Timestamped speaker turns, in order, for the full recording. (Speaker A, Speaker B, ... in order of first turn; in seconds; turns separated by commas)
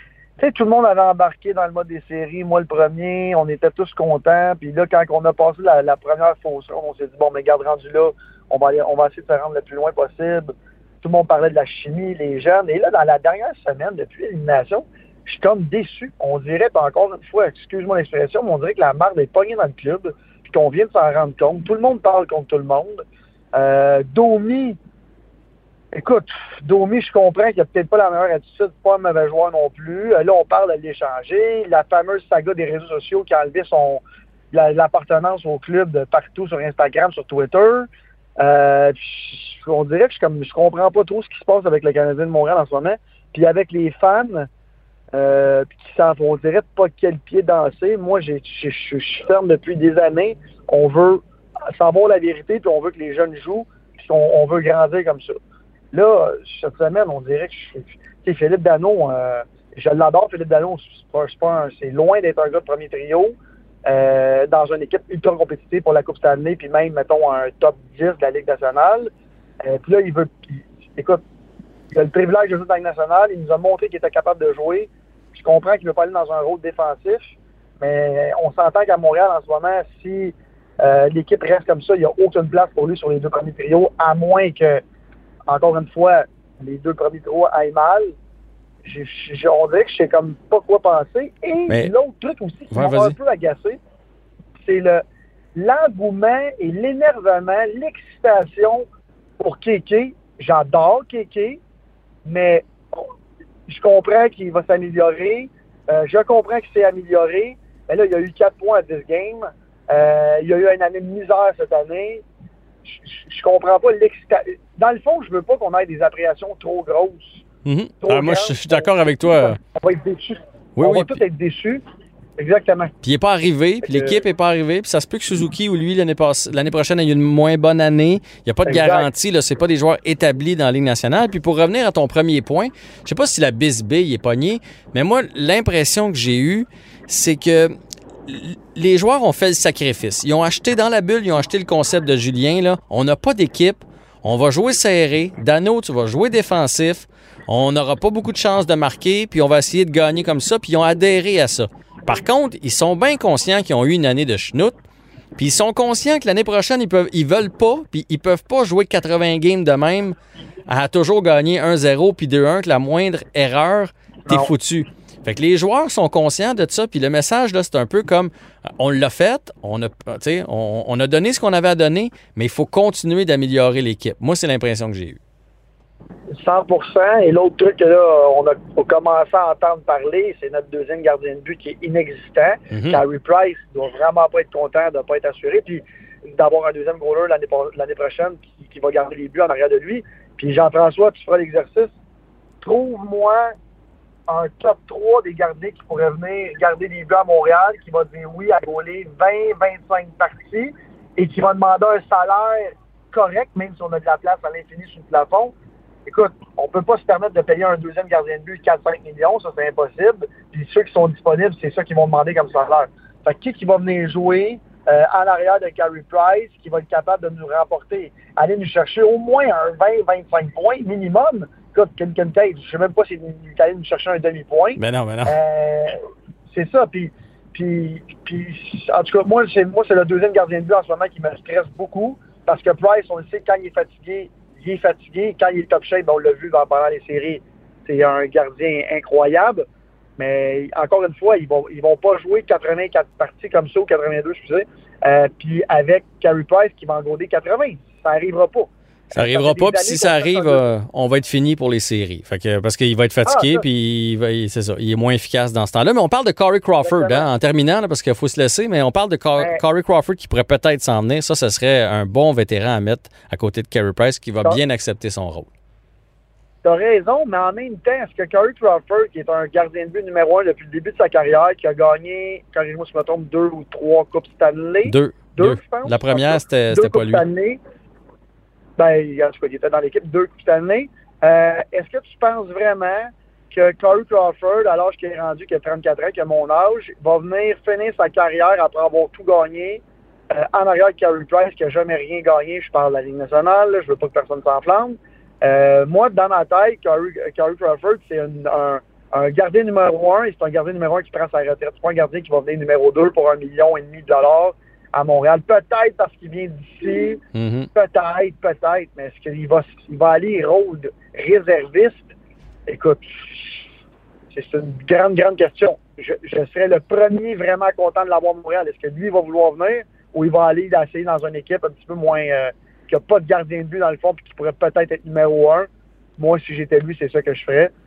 Speaker A: 0.4-23.0, Speaker A: 23.5-24.8, Speaker A: 25.9-37.9, Speaker A: 38.4-44.5, Speaker A: 45.1-55.3, Speaker A: 55.9-63.3, Speaker A: 63.9-69.1, Speaker A: 69.6-71.2, Speaker A: 71.9-84.8, Speaker A: 85.5-88.1, Speaker A: 88.8-93.8, Speaker B: 92.7-93.1, Speaker A: 94.6-95.0, Speaker A: 95.5-98.8, Speaker A: 99.4-101.6, Speaker A: 102.2-103.1, Speaker A: 103.7-112.2, Speaker A: 112.8-117.4, Speaker B: 117.6-119.6, Speaker A: 118.0-121.8, Speaker B: 120.8-121.2, Speaker A: 122.4-122.9, Speaker B: 123.0-137.7, Speaker A: 123.8-124.2, Speaker A: 128.7-129.1, Speaker B: 138.3-154.8, Speaker B: 155.4-160.2, Speaker B: 160.7-175.2, Speaker A: 176.3-185.8, Speaker B: 182.7-183.0, Speaker A: 186.3-191.9, Speaker A: 192.6-193.5, Speaker A: 194.3-205.5, Speaker A: 206.1-226.0, Speaker B: 224.8-225.4, Speaker A: 226.5-239.6, Speaker A: 240.2-250.7, Speaker B: 249.1-265.5, Speaker A: 253.2-253.6, Speaker A: 256.8-257.3, Speaker A: 266.6-277.6, Speaker B: 274.9-277.2, Speaker A: 278.8-307.2, Speaker B: 307.3-307.7, Speaker A: 307.7-312.1, Speaker A: 312.7-313.7, Speaker A: 314.3-327.7